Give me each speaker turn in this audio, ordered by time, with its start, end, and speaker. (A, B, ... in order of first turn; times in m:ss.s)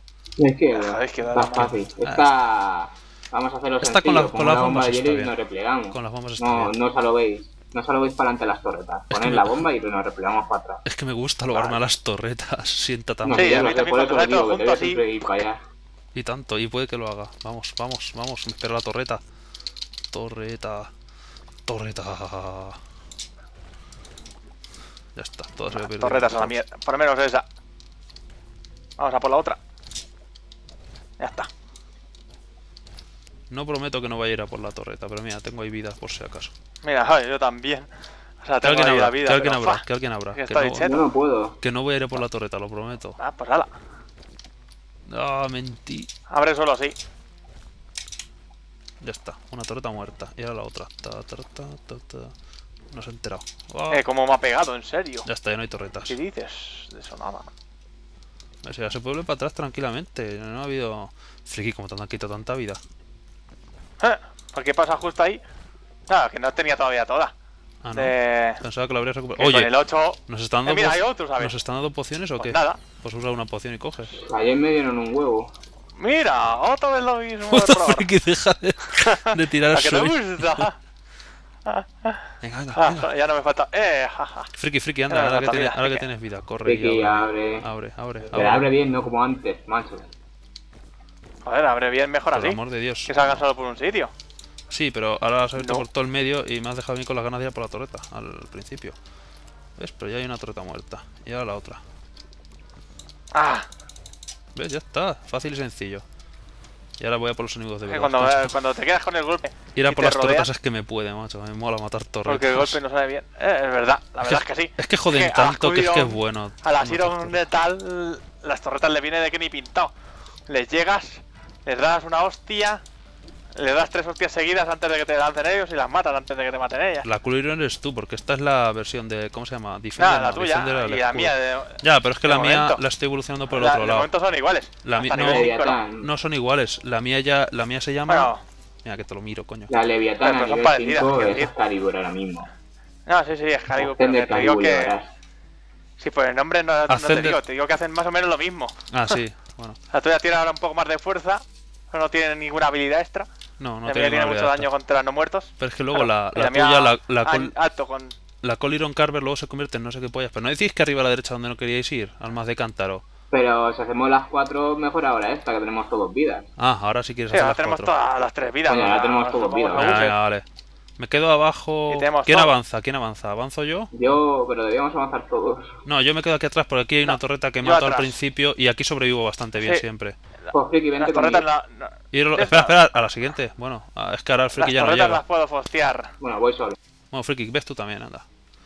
0:00.4-0:10.8 A
0:00.7-0:01.7 B
0:01.5-0:02.3 C
0:03.8-0:05.4 C
0:05.9-0:06.7 C
0:09.1-0:09.6 C
0:10.8-0:13.8 C
0:11.5-0:11.8 A
0:13.2-0:15.6 A
0:13.3-0:15.0 B
0:16.2-0:19.2 C
0:20.1-0:20.9 C
0:21.7-0:22.8 C
0:25.2-0:26.6 C
0:25.7-0:27.5 B
0:29.0-0:29.6 B
0:31.2-0:31.5 B
0:33.5-0:36.5 C
0:36.8-0:37.9 B
0:38.4-0:41.1 B
0:38.6-0:41.0 C
0:40.8-0:41.6 A
0:41.6-0:43.2 C
0:43.2-0:43.7 B
0:45.1-0:46.1 C
0:46.3-0:47.0 B
0:49.0-0:52.3 C
0:52.9-0:54.0 C
0:53.9-0:55.3 B
0:55.3-0:56.2 C
0:56.1-0:57.5 B
0:58.6-1:02.8 C
1:04.0-1:05.4 B
1:06.1-1:07.3 B
1:07.8-1:09.7 C
1:07.9-1:08.6 B
1:09.4-1:11.6 B
1:10.3-1:14.2 C
1:12.4-1:12.8 B
1:14.2-1:15.5 A
1:16.0-1:18.1 B
1:17.5-1:20.7 C
1:18.9-1:20.7 B
1:21.7-1:24.5 B
1:22.4-1:23.1 C
1:24.6-1:28.7 C
1:25.1-1:26.1 B
1:26.6-1:27.7 A
1:28.3-1:30.1 A
1:31.4-1:34.1 B
1:32.3-1:33.1 C
1:34.7-1:39.0 C
1:35.6-1:35.9 B
1:39.8-1:41.8 C
1:43.3-1:43.7 B
1:44.6-1:46.0 C
1:47.0-1:48.6 C
1:47.9-1:50.5 B
1:49.8-1:52.8 C
1:52.3-1:59.9 B
1:54.2-1:57.4 C
2:00.5-2:02.8 B
2:03.6-2:07.1 B
2:07.0-2:14.1 C
2:10.0-2:12.8 B
2:13.5-2:15.8 B
2:14.8-2:18.3 C
2:15.2-2:16.1 A
2:18.1-2:18.4 B
2:18.8-2:19.7 C
2:19.7-2:22.5 A
2:20.2-2:21.5 B
2:23.1-2:25.0 B
2:23.7-2:25.1 A
2:26.0-2:29.2 B
2:26.9-2:27.4 C
2:28.9-2:29.8 C
2:29.9-2:33.3 B
2:33.6-2:34.7 C
2:33.9-2:38.2 B
2:35.6-2:37.5 C
2:38.4-2:43.0 C
2:43.3-2:46.5 A
2:46.6-2:47.9 C
2:47.3-2:50.2 B
2:48.7-2:49.9 A
2:49.7-2:50.4 C
2:51.0-2:53.9 C
2:51.9-2:52.5 B
2:53.9-2:55.7 A
2:55.8-3:00.2 C
2:57.0-2:58.2 B
2:59.6-2:59.8 B
3:00.4-3:02.8 B
3:00.5-3:01.5 A
3:02.1-3:05.2 C
3:04.6-3:06.1 B
3:06.2-3:06.8 A
3:07.1-3:08.2 C